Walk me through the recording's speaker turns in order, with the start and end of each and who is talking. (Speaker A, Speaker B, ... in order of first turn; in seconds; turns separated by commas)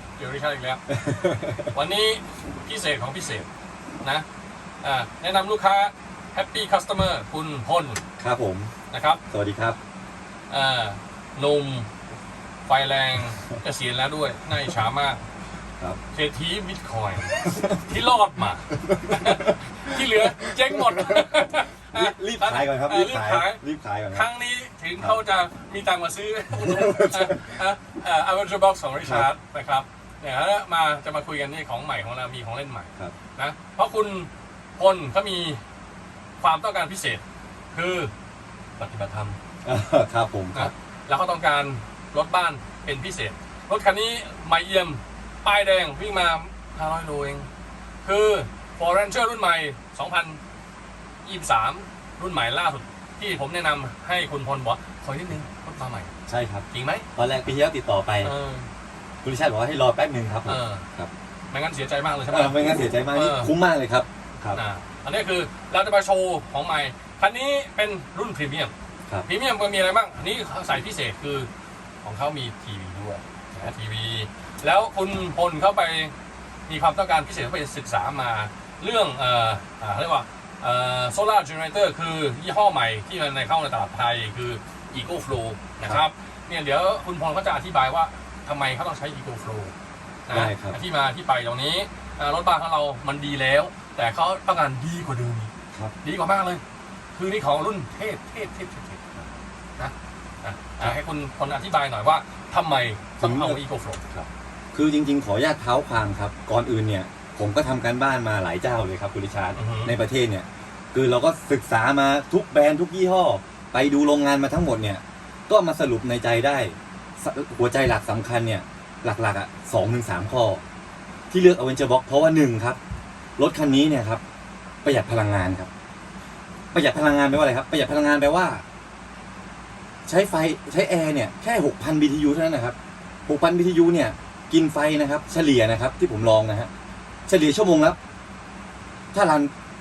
Speaker A: 0.2-0.8, Speaker B: 0.9-1.7, Speaker A: 1.7-3.5, Speaker A: 4.8-8.0, Speaker B: 8.2-8.7, Speaker A: 8.9-9.2, Speaker B: 9.3-9.8, Speaker A: 10.5-11.9, Speaker A: 12.7-15.2, Speaker A: 16.1-35.6, Speaker B: 17.4-17.8, Speaker B: 18.8-24.3, Speaker B: 26.5-27.6, Speaker B: 29.0-29.3, Speaker A: 36.4-38.1, Speaker A: 38.8-39.4, Speaker B: 39.6-40.7, Speaker A: 40.5-47.5, Speaker A: 48.0-50.4, Speaker A: 51.2-56.1, Speaker B: 56.3-58.3, Speaker A: 56.7-57.1, Speaker A: 58.2-58.7, Speaker B: 59.2-61.1, Speaker A: 60.5-60.9, Speaker A: 61.5-63.5, Speaker B: 62.3-64.6, Speaker A: 64.5-68.7, Speaker A: 69.2-71.5, Speaker A: 72.0-76.1, Speaker A: 76.7-89.7, Speaker A: 90.3-95.5, Speaker B: 90.3-90.8, Speaker A: 96.0-99.0, Speaker A: 99.8-104.1, Speaker B: 103.2-103.6, Speaker B: 104.1-120.6, Speaker A: 109.5-109.9, Speaker B: 121.3-122.8, Speaker B: 123.4-124.2, Speaker B: 124.8-125.7, Speaker B: 126.7-128.6, Speaker B: 130.1-132.8, Speaker B: 133.3-136.7, Speaker B: 137.3-138.0, Speaker B: 139.1-139.5